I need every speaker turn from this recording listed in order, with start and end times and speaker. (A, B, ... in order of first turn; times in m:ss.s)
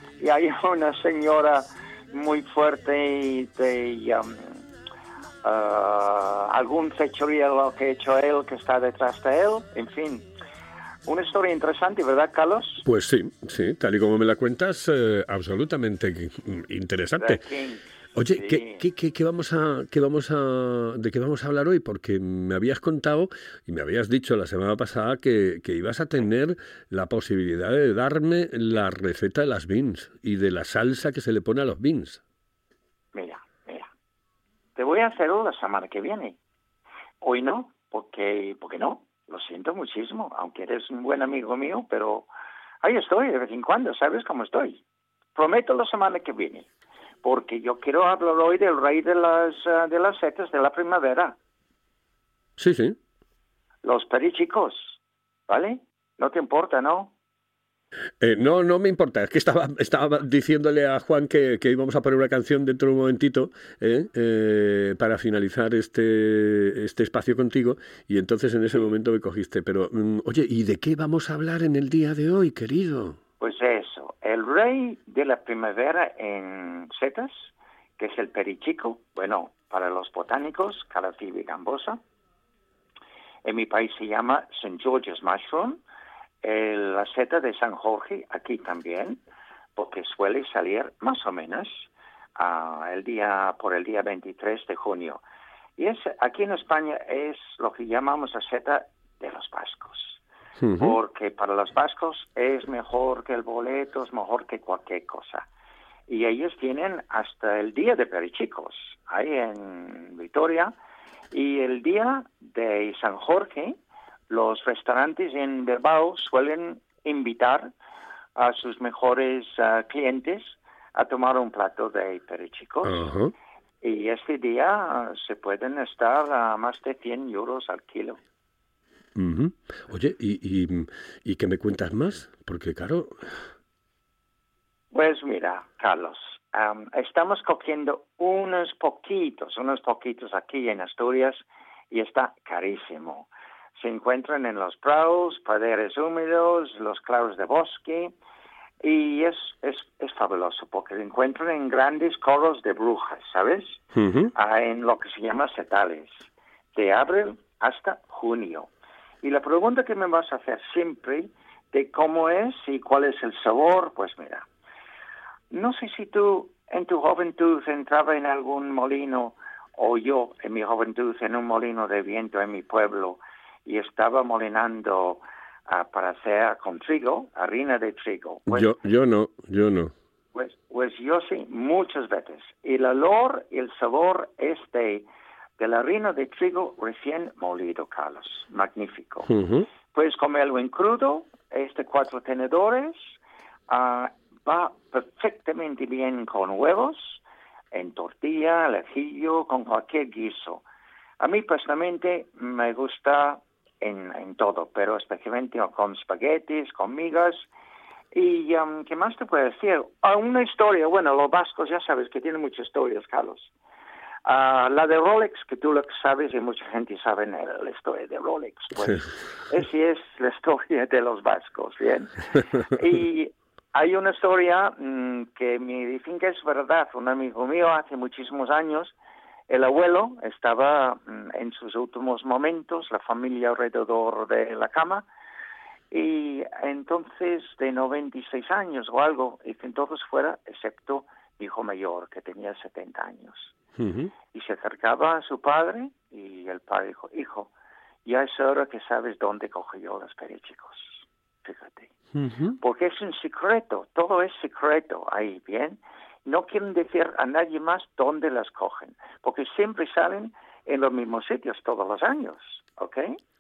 0:00.2-0:04.5 A
0:05.4-0:10.2 A
0:11.0-0:12.8 A
0:12.8-0:17.4 B
0:17.2-0:17.8 A
0:18.2-0:32.2 B
0:18.3-0:18.8 A
0:33.1-0:33.9 A
0:34.8-0:36.4 A
0:37.2-0:42.3 A
0:42.8-0:44.8 A
0:45.4-0:46.7 A
0:47.2-0:51.4 A
0:52.6-0:53.0 B
0:53.8-0:55.0 A
0:55.5-0:57.1 A
0:58.2-1:13.2 B
1:13.4-1:22.0 A
1:23.4-1:25.8 A
1:26.4-1:29.2 A
1:29.8-1:31.8 A
1:32.4-1:35.2 A
1:35.8-1:40.2 A
1:40.6-1:41.0 B
1:40.8-1:45.4 A
1:46.1-1:50.7 A
1:51.3-1:53.8 A
1:54.3-1:57.7 A
1:58.4-2:03.0 A
2:02.8-2:03.3 B
2:03.8-2:08.2 A
2:09.2-2:13.4 B
2:14.9-2:28.1 A
2:28.8-2:33.8 A
2:33.9-2:34.3 B
2:34.3-2:36.1 A
2:36.7-2:38.7 A
2:39.2-2:44.4 A
2:45.5-2:58.7 A
2:58.5-2:59.9 B
3:00.3-3:05.0 A
3:05.6-3:09.3 A
3:09.3-3:09.7 B
3:09.9-3:13.0 A
3:13.7-3:17.2 A
3:17.7-3:20.6 A
3:21.2-3:27.4 A
3:28.1-3:33.5 A
3:34.2-3:48.9 A
3:49.5-3:55.0 A
3:55.9-4:03.5 A
4:03.8-4:04.1 B
4:04.3-4:07.5 A
4:08.0-4:11.9 A
4:12.1-4:12.6 B
4:12.6-4:23.2 A